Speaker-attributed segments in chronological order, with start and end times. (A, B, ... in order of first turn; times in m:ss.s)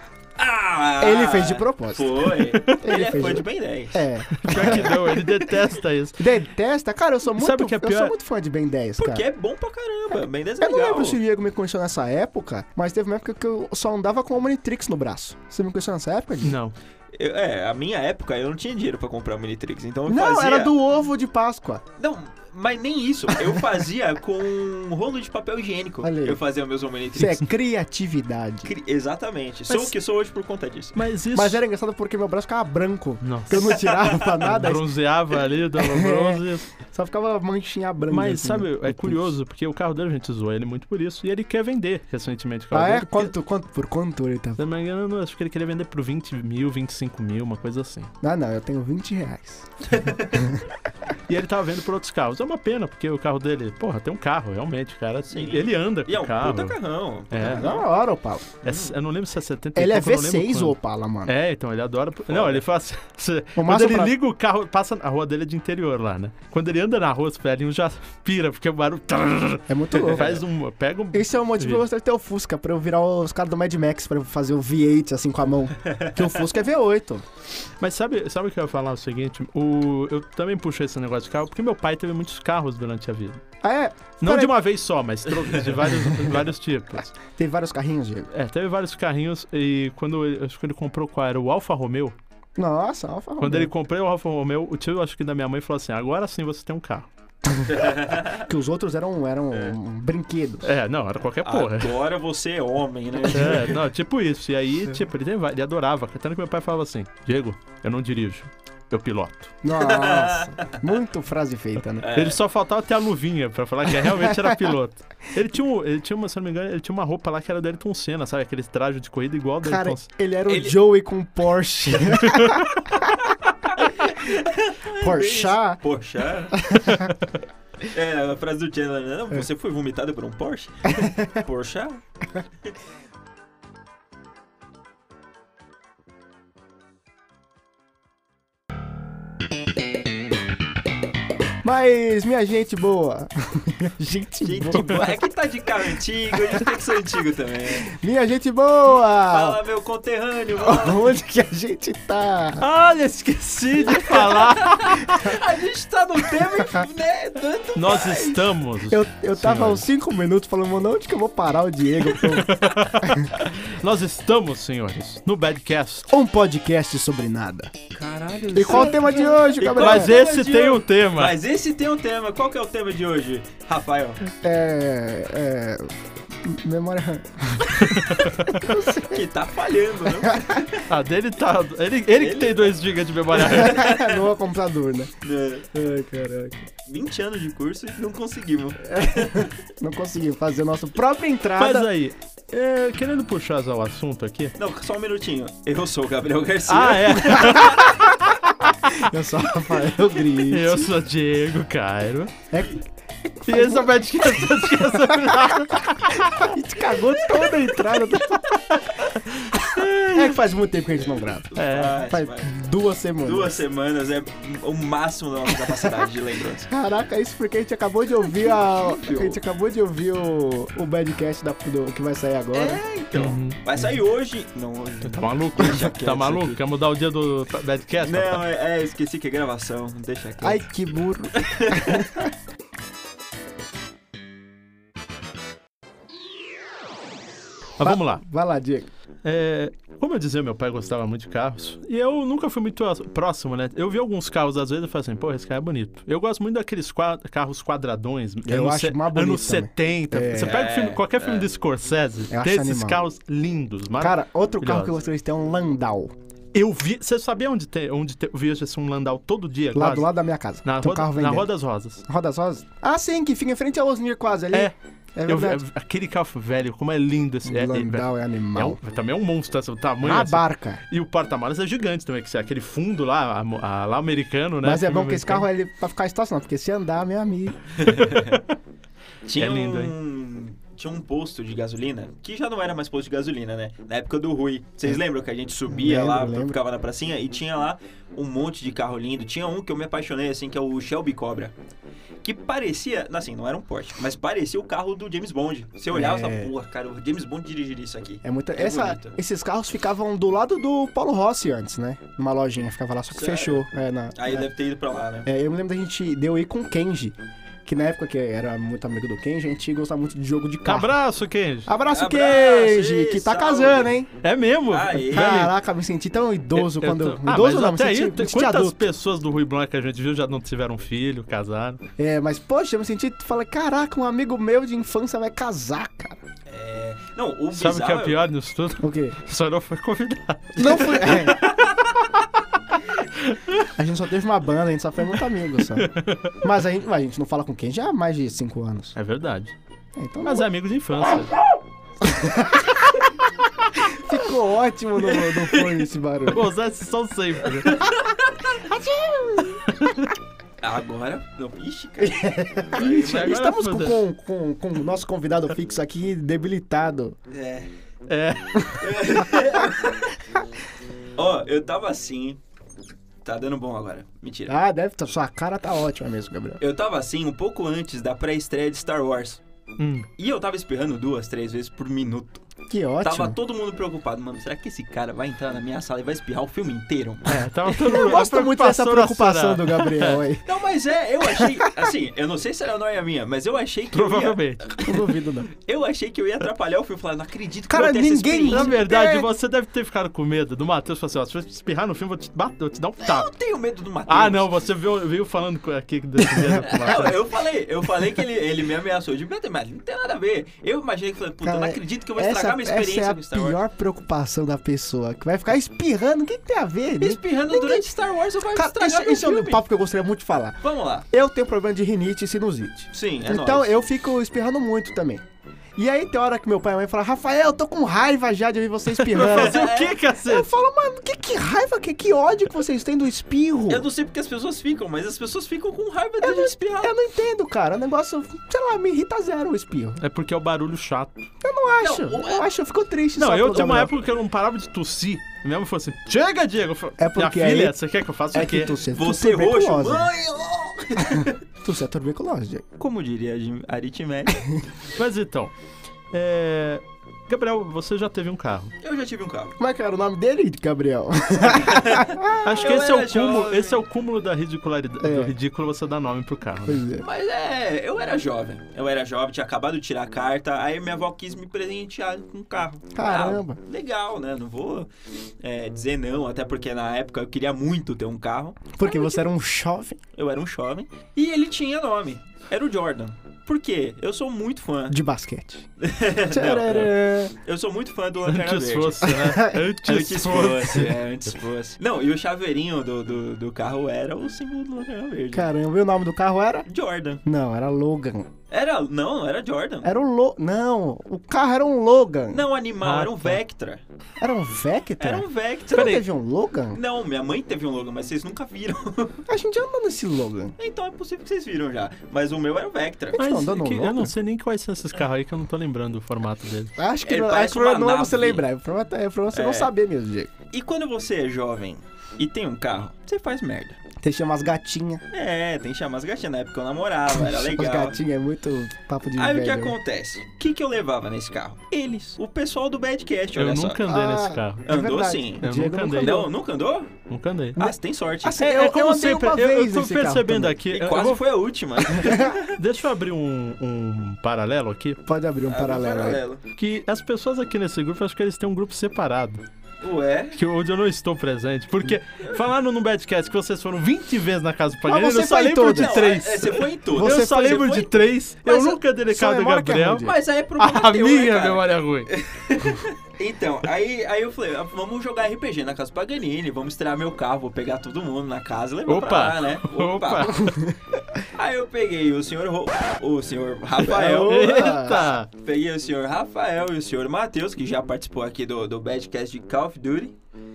0:00.4-0:05.0 A
0:01.0-0:05.1 B
0:02.5-0:03.0 C
0:04.4-0:06.2 C
0:06.2-0:09.2 B
0:07.3-0:08.1 C
0:09.0-0:11.2 A
0:10.6-0:16.6 B
0:16.4-0:16.7 C
0:17.1-0:20.7 A
0:20.0-0:21.8 B
0:22.0-0:27.4 A
0:26.0-0:26.4 B
0:27.1-0:28.7 B
0:28.6-0:31.0 A
0:29.7-0:29.9 C
0:30.9-0:31.6 C
0:31.3-0:34.9 B
0:33.2-0:33.8 C
0:33.7-0:34.4 A
0:34.4-0:36.7 C
0:35.8-0:39.3 B
0:38.1-0:43.3 C
0:42.7-0:44.6 B
0:44.6-0:48.1 C
0:48.2-0:49.7 B
0:49.9-0:50.5 A
0:50.3-0:50.6 B
0:51.3-0:56.8 C
0:55.3-0:57.8 A
0:57.3-0:57.7 C
0:57.4-0:58.6 B
0:58.6-1:11.8 C
0:58.6-0:58.9 A
0:59.7-1:01.3 B
1:02.3-1:02.6 A
1:03.6-1:04.1 B
1:09.7-1:10.4 B
1:11.1-1:17.2 B
1:15.8-1:16.2 A
1:17.8-1:23.4 C
1:23.6-1:24.5 B
1:24.2-1:27.2 C
1:27.2-1:28.3 B
1:28.3-1:32.2 C
1:32.6-1:33.7 B
1:33.4-1:37.1 C
1:37.6-1:38.5 A
1:38.3-1:40.7 B
1:40.6-1:42.0 C
1:41.4-1:43.8 A
1:43.3-1:49.5 C
1:49.6-1:52.1 B
1:49.7-1:50.8 A
1:52.0-1:52.4 A
1:52.1-2:00.0 C
1:54.1-1:54.6 B
1:59.6-2:03.1 B
2:00.5-2:00.8 A
2:02.2-2:02.7 C
2:03.4-2:06.7 A
2:05.0-2:05.8 B
2:06.5-2:07.1 B
2:07.9-2:12.0 A
2:10.9-2:11.3 B
2:21.6-2:25.1 B
2:24.4-2:27.9 A
2:27.8-2:29.6 B
2:29.2-2:31.0 A
2:30.6-2:32.6 B
2:32.6-2:35.4 C
2:33.9-2:38.4 A
2:37.7-2:39.8 C
2:38.9-2:43.3 B
2:42.1-2:46.1 C
2:46.1-2:47.7 B
2:47.9-2:54.2 A
2:48.5-2:50.1 B
2:49.7-2:51.4 C
2:54.4-2:59.2 B
2:57.8-2:58.7 C
2:59.0-3:00.9 A
3:00.2-3:00.6 B
3:00.9-3:03.8 C
3:02.1-3:02.8 A
3:03.4-3:04.2 A
3:03.5-3:05.1 B
3:05.2-3:05.7 A
3:05.7-3:06.7 B
3:06.8-3:09.5 A
3:08.9-3:11.9 B
3:11.6-3:14.5 C
3:14.6-3:17.9 A
3:16.7-3:18.3 C
3:17.4-3:17.8 B
3:18.9-3:20.9 B
3:20.5-3:22.3 C
3:22.5-3:22.8 B
3:23.4-3:25.3 B
3:23.4-3:26.4 C
3:26.2-3:28.6 B
3:28.7-3:30.3 C
3:30.1-3:31.5 B
3:31.5-3:32.5 A
3:31.6-3:32.0 C
3:32.0-3:33.6 B
3:33.2-3:36.7 A
3:36.7-3:42.8 B
3:38.3-3:39.4 A
3:42.5-3:46.6 A
3:43.1-3:43.6 C
3:45.0-3:48.4 C
3:48.0-3:50.6 A
3:50.4-3:52.3 B
3:51.3-3:52.1 A
3:57.8-3:58.2 C
3:57.8-3:58.9 B
3:59.2-4:14.9 C
4:08.4-4:10.6 B
4:10.3-4:11.5 A
4:12.3-4:13.0 B
4:14.0-4:16.1 B
4:16.5-4:20.1 C
4:19.7-4:21.5 B
4:20.6-4:22.0 C
4:22.0-4:25.6 B
4:25.2-4:35.5 C
4:27.4-4:28.8 B
4:30.0-4:30.8 B
4:34.6-4:37.6 B
4:37.8-4:38.4 A
4:39.2-4:51.5 A
4:39.4-4:39.9 C
4:45.7-4:46.6 B
4:52.2-4:59.2 A
4:55.9-4:56.5 B
4:58.2-5:04.5 B
5:03.1-5:05.3 A
5:05.2-5:10.9 B
5:10.6-5:11.7 C
5:11.6-5:14.1 B
5:11.9-5:13.9 A
5:14.2-5:15.5 C
5:14.7-5:15.4 A
5:15.1-5:18.9 B
5:16.5-5:21.8 C
5:22.0-5:26.2 B
5:26.5-5:28.2 A
5:27.5-5:31.7 C
5:28.8-5:29.2 B
5:30.6-5:31.4 B
5:33.2-5:33.6 C
5:33.8-5:35.9 B
5:35.7-5:36.4 C
5:36.4-5:38.9 B
5:39.0-5:39.5 C
5:40.0-5:40.5 B
5:40.2-5:41.3 C
5:42.0-5:42.9 B
5:43.8-5:46.5 B
5:46.3-5:47.8 C
5:47.6-5:48.3 A
5:48.5-5:49.6 B
5:49.7-5:50.1 C
5:50.6-5:53.3 A
5:52.0-5:57.2 B
5:52.8-5:54.0 C
5:57.3-5:57.7 A
5:58.1-5:59.0 C
5:58.8-6:00.1 A
6:01.2-6:02.4 A
6:03.2-6:04.5 A
6:04.5-6:06.6 B
6:06.6-6:09.4 A
6:09.8-6:10.1 C
6:10.1-6:12.4 A
6:12.7-6:13.4 B
6:13.0-6:17.9 A
6:17.2-6:20.2 C
6:17.8-6:20.4 B
6:20.4-6:24.4 A
6:21.2-6:21.7 B
6:23.9-6:25.1 C
6:24.8-6:25.5 B
6:25.6-6:28.7 A
6:27.7-6:29.3 B
6:28.5-6:33.3 C
6:33.0-6:34.5 A
6:34.1-6:37.2 C
6:36.2-6:37.1 B
6:36.6-6:43.6 A
6:41.4-6:47.8 B
6:47.0-6:49.6 A
6:48.5-6:55.2 B
6:50.6-6:51.0 A
6:52.9-6:53.8 A
6:55.8-7:03.8 B
6:58.9-7:00.5 C
6:59.2-7:00.0 A
7:03.7-7:06.9 A
7:06.2-7:10.0 B
7:10.0-7:11.3 C
7:11.4-7:13.9 B
7:11.8-7:12.5 A
7:13.2-7:18.8 C
7:17.0-7:17.8 B
7:18.3-7:20.1 B
7:18.9-7:21.4 A
7:21.0-7:22.6 B
7:22.8-7:24.5 A
7:24.9-7:25.5 C
7:26.1-7:28.7 C
7:28.8-7:29.5 A
7:29.6-7:32.6 B
7:31.4-7:33.8 A
7:32.4-7:36.8 C
7:35.0-7:35.3 B
7:36.6-7:37.0 B
7:37.0-7:44.9 A
7:42.9-7:43.6 B
7:45.4-7:49.2 A
7:48.8-7:50.0 B
7:50.1-7:55.0 A
7:54.9-7:55.6 B
7:55.8-7:59.2 A
7:56.3-7:57.3 B
7:58.2-8:01.0 C
7:59.1-7:59.6 B
7:59.8-8:05.5 A
8:05.3-8:06.7 B
8:06.6-8:07.2 A
8:07.2-8:08.3 B
8:08.5-8:09.9 A
8:09.8-8:12.4 B
8:12.3-8:13.8 A
8:12.8-8:13.4 C
8:14.2-8:16.8 B
8:15.0-8:16.0 A
8:15.7-8:16.0 C
8:16.7-8:19.2 A
8:19.2-8:20.6 B
8:20.6-8:23.2 A
8:23.1-8:24.1 B
8:23.2-8:26.7 C
8:26.8-8:30.3 B
8:27.0-8:28.4 A
8:29.3-8:29.7 A
8:30.5-8:33.8 A
8:34.0-8:35.0 B
8:35.1-8:38.0 A
8:37.1-8:39.8 B
8:39.1-8:43.8 A
8:43.3-8:44.7 C
8:43.8-8:46.3 B
8:44.6-8:46.9 A
8:45.4-8:46.3 C
8:47.1-8:47.7 C
8:47.6-8:48.4 A
8:48.2-8:50.6 B
8:48.4-8:51.3 C
8:50.7-8:52.6 A
8:51.9-8:52.3 B
8:52.4-8:55.0 C
8:55.0-8:56.2 B
8:55.5-8:56.4 A
8:56.6-8:59.4 C
8:59.8-9:00.4 A
9:00.3-9:12.1 C
9:04.8-9:06.0 B
9:05.7-9:08.0 A
9:07.0-9:07.9 B
9:08.4-9:10.1 B
9:10.0-9:20.5 A
9:18.9-9:20.6 C
9:20.4-9:20.8 B
9:21.3-9:30.2 A
9:23.8-9:25.1 B
9:24.1-9:25.3 C